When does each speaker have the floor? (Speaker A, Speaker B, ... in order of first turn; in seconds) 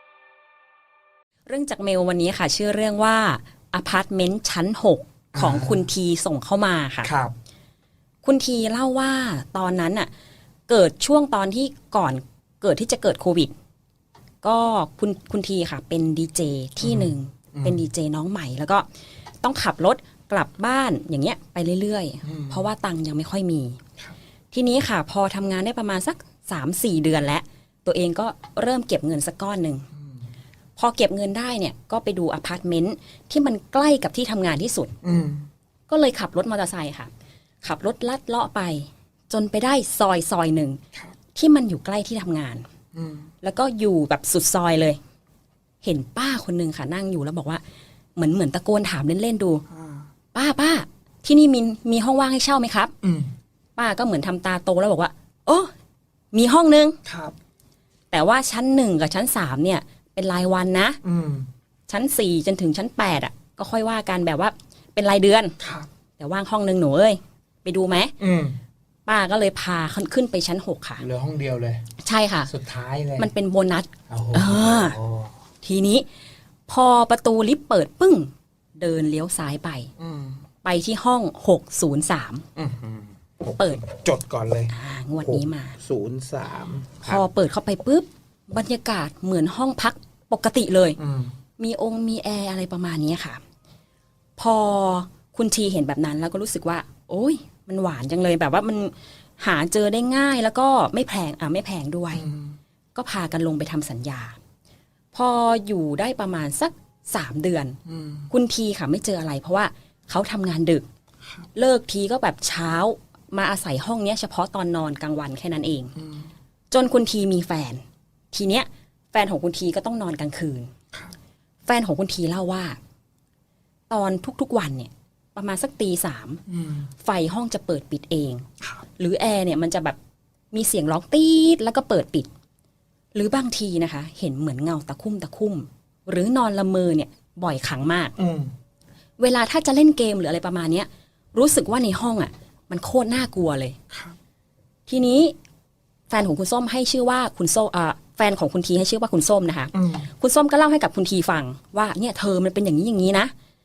Speaker A: 1.5-7.1, 8.2-10.1, 10.7-13.5, 14.4-18.9, 19.4-23.8, 24.5-29.9, 30.8-35.0, 35.9-37.1, 37.6-40.8, 41.3-42.7, 43.4-45.0, 45.8-47.6, 48.2-49.6, 50.3-52.9, 53.8-55.7, 56.3-57.0, 58.1-61.0, 61.9-65.6, 66.2-68.1, 69.1-71.0, 72.0-72.5, 73.2-75.0, 75.6-76.1, 76.7-79.9, 80.6-82.5, 83.5-83.8, 84.7-85.8, 87.0-91.0, 91.6-93.4, 94.4-102.3, 103.0-104.4, 105.1-107.8, 108.3-110.8, 111.5-115.9, 116.7-120.7, 121.7-122.8, 123.9-126.4, 127.0-128.4, 129.0-130.0, 130.5-132.3, 133.1-138.1, 139.2-143.8, 144.9-145.3, 146.1-153.3
Speaker B: 5.3-5.8, 7.0-7.3, 16.8-17.8, 22.2-22.6, 35.0-35.5, 43.0-43.3, 49.7-50.1, 53.0-53.3, 57.1-57.3, 61.0-61.5, 65.6-65.9, 68.2-68.6, 71.0-71.8, 72.5-73.3, 74.1-75.3, 80.0-80.4, 82.6-87.2, 91.0-91.3, 102.2-102.6, 107.9-108.3, 116.0-116.3, 126.5-126.9, 138.2-138.5, 143.9-144.2, 149.7-150.1